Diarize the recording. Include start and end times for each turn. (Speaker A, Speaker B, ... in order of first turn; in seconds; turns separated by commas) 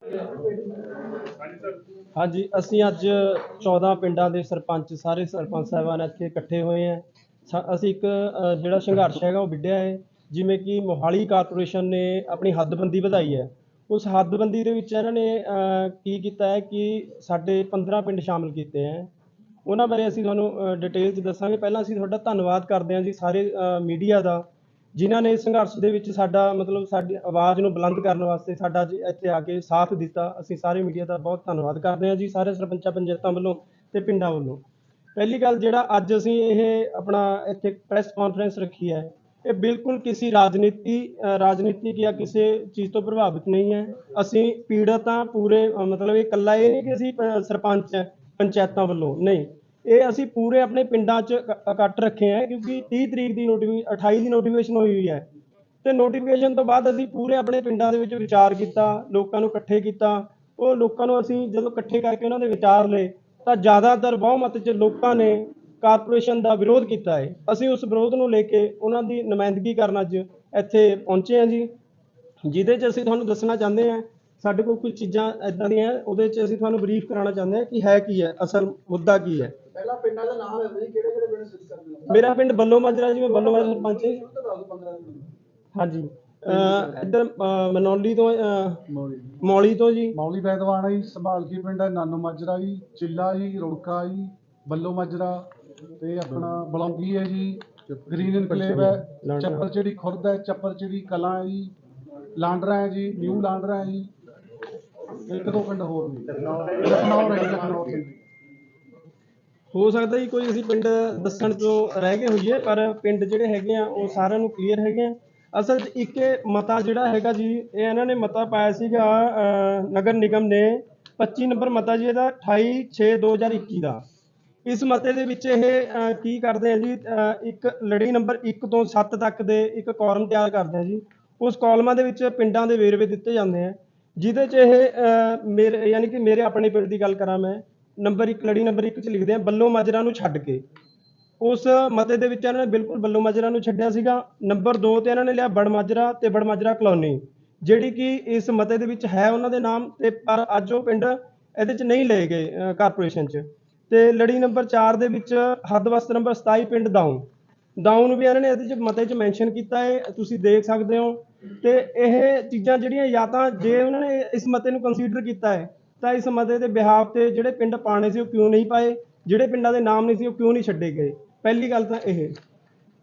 Speaker A: 0.1-0.9, Speaker B: 2.2-19.1, Speaker B: 19.6-34.6, Speaker B: 35.1-55.3, Speaker B: 55.8-71.7, Speaker B: 72.4-79.5, Speaker A: 79.7-82.2, Speaker B: 82.1-84.2, Speaker A: 83.3-85.3, Speaker B: 85.7-88.8, Speaker C: 88.9-89.4, Speaker B: 89.4-90.2, Speaker C: 90.1-95.5, Speaker C: 96.0-101.7, Speaker B: 98.6-99.6, Speaker C: 102.4-104.1, Speaker C: 105.2-108.2, Speaker B: 109.7-124.0, Speaker B: 124.7-140.6, Speaker B: 141.4-157.3, Speaker B: 157.8-172.3